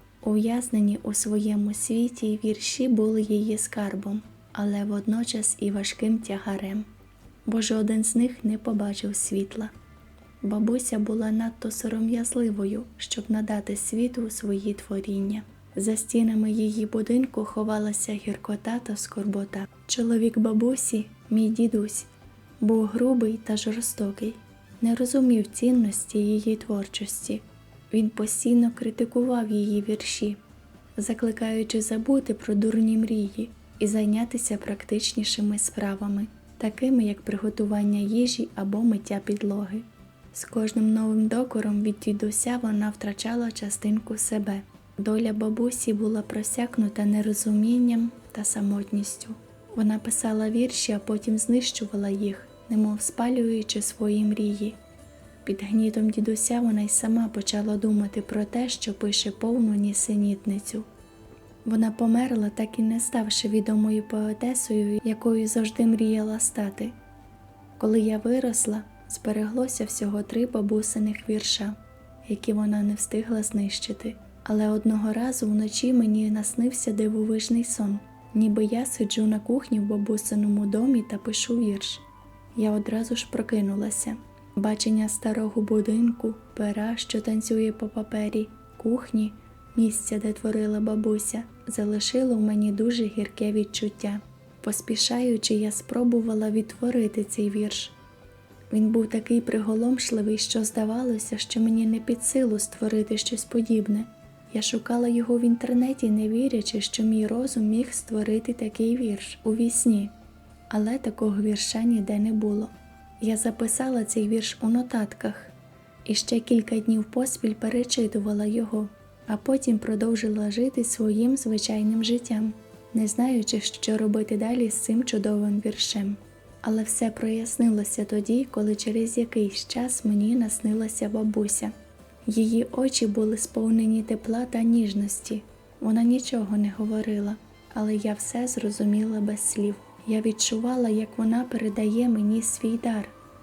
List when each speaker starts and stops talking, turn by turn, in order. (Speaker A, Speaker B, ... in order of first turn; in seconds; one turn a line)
Speaker A: 0.2-6.9
Speaker A: 7.5-9.7
Speaker A: 10.4-22.1
Speaker A: 22.6-30.4
Speaker A: 31.0-54.8
Speaker A: 55.4-60.9
Speaker A: 61.6-66.9
Speaker A: 67.8-82.0
Speaker A: 82.5-97.9
Speaker A: 98.7-110.1
Speaker A: 110.7-115.5
Speaker A: 116.0-131.7
Speaker A: 132.2-143.1